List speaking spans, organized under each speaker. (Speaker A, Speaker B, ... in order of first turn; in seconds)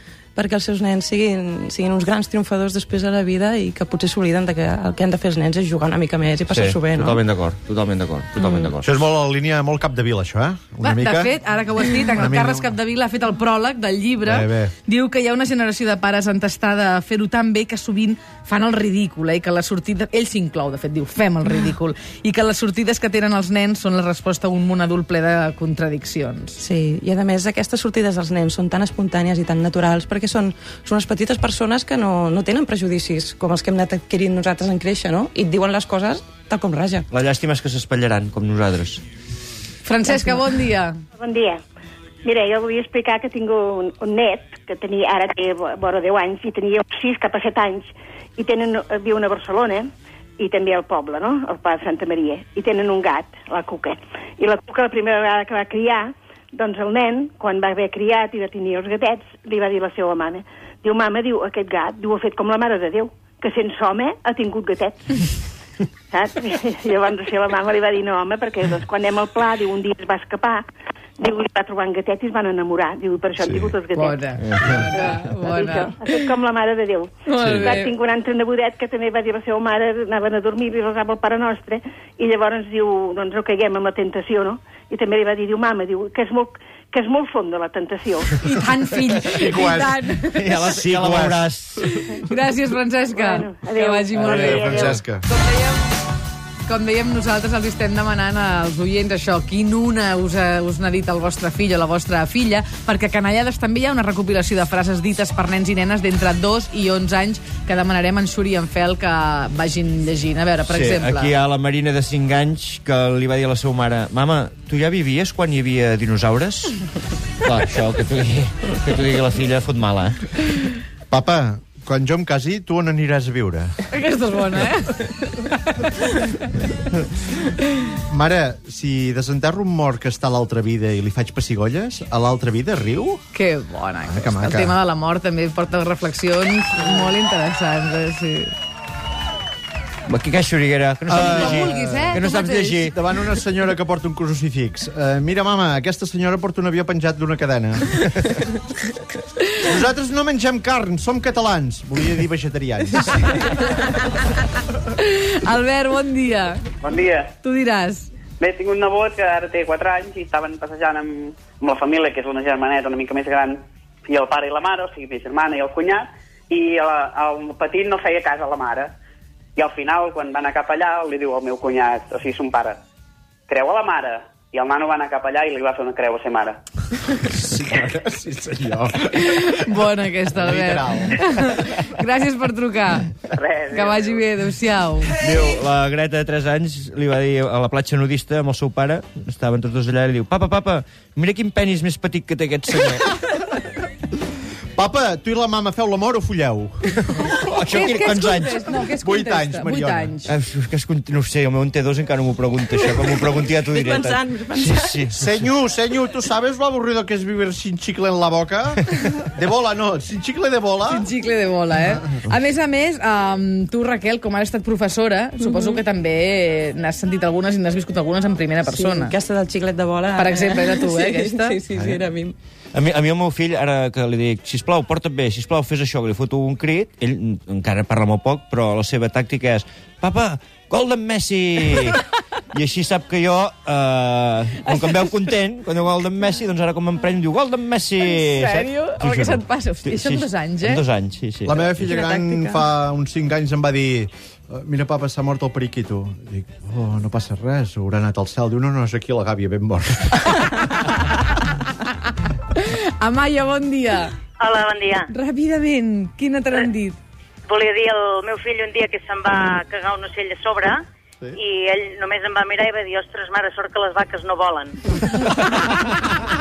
Speaker A: 0.3-7.2, 8.4-8.7, 26.6-37.1, 203.4-205.1, 215.4-215.8, 218.6-222.3, 241.8-242.7
Speaker B: 6.5-8.9, 37.1-39.0, 90.3-91.9, 110.7-116.8, 117.4-120.3, 140.1-142.9, 185.2-193.1, 197.3-198.6, 200.2-205.5, 222.7-241.9
Speaker C: 8.8-11.3, 12.1-12.7, 14.3-14.7, 73.4-73.7, 89.3-90.0, 90.8-91.5, 94.4-95.2, 121.1-123.7, 128.1-133.2, 134.0-134.7, 141.1-142.2, 142.8-148.0, 149.6-153.5, 177.2-179.6, 180.3-181.5, 194.7-197.4, 199.0-200.1, 205.1-211.1, 241.4-250.5
Speaker D: 10.8-26.6, 39.8-41.0, 73.9-76.2, 77.2-77.9, 88.3-90.6, 92.2-95.9, 96.7-111.3, 123.9-125.5, 133.3-138.5, 141.2-142.9, 154.9-156.6, 157.4-158.1, 179.1-183.1, 183.7-185.1, 197.7-200.3, 210.8-219.1, 220.2-221.6, 238.0-240.8, 252.5-254.2, 255.1-257.0, 265.4-265.9
Speaker E: 41.2-41.6, 42.2-65.4, 66.1-70.6, 71.2-74.2, 74.8-88.3, 93.1-95.0
Speaker F: 156.8-157.3, 158.4-168.9, 169.6-172.8, 173.5-176.6, 183.3-184.2
Speaker G: 254.4-255.1, 257.5-264.7